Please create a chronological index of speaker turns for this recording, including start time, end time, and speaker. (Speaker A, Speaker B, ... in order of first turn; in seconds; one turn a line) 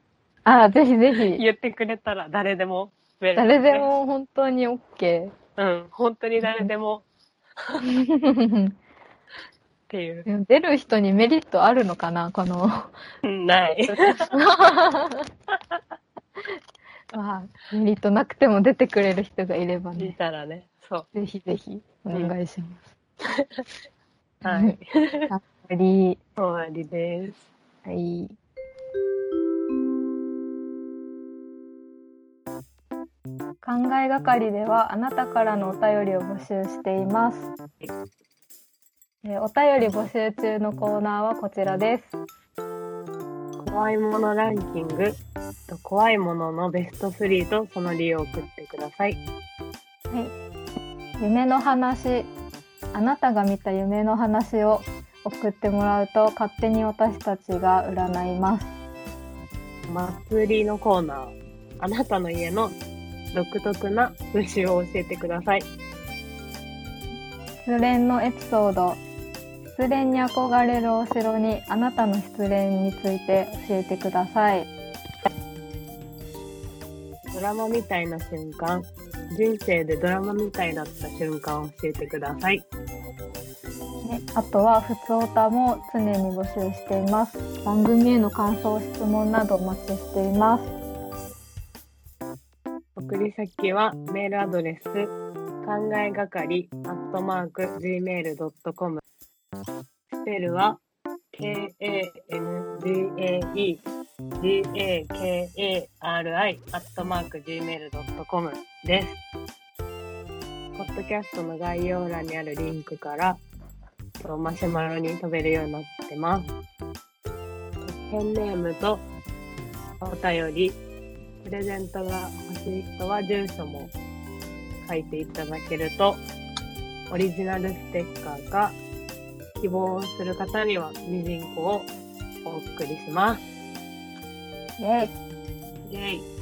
Speaker A: 0.4-1.4
Speaker B: 1.3-3.9
Speaker A: 3.4-5.3
Speaker B: 5.6-7.0
Speaker A: 6.4-6.7
Speaker A: 7.8-8.8
Speaker B: 9.9-10.3
Speaker A: 10.3-12.9
Speaker B: 13.2-14.3
Speaker A: 13.9-15.3
Speaker A: 17.1-20.1
Speaker B: 20.0-21.1
Speaker A: 21.1-22.9
Speaker B: 23.4-23.6
Speaker B: 24.4-25.3
Speaker A: 24.4-24.8
Speaker A: 25.3-26.2
Speaker B: 26.4-27.5
Speaker A: 27.8-28.4
Speaker A: 33.6-37.5
Speaker A: 39.2-42.1
Speaker B: 43.6-45.2
Speaker B: 45.7-49.2
Speaker A: 50.1-50.3
Speaker A: 51.2-52.3
Speaker A: 52.9-58.7
Speaker B: 59.9-62.7
Speaker B: 63.3-65.7
Speaker A: 67.6-69.0
Speaker A: 69.7-74.7
Speaker B: 77.3-82.7
Speaker A: 84.0-90.7
Speaker B: 93.0-99.0
Speaker B: 100.1-100.8
Speaker B: 101.3-103.8
Speaker B: 104.4-109.2
Speaker B: 110.7-113.4
Speaker B: 114.2-116.5
Speaker B: 117.8-119.0
Speaker B: 120.0-120.8
Speaker B: 121.4-123.9
Speaker B: 124.8-126.2
Speaker B: 127.1-128.8
Speaker B: 129.6-131.9
Speaker B: 132.4-133.4
Speaker A: 134.8-135.1
Speaker B: 135.9-136.3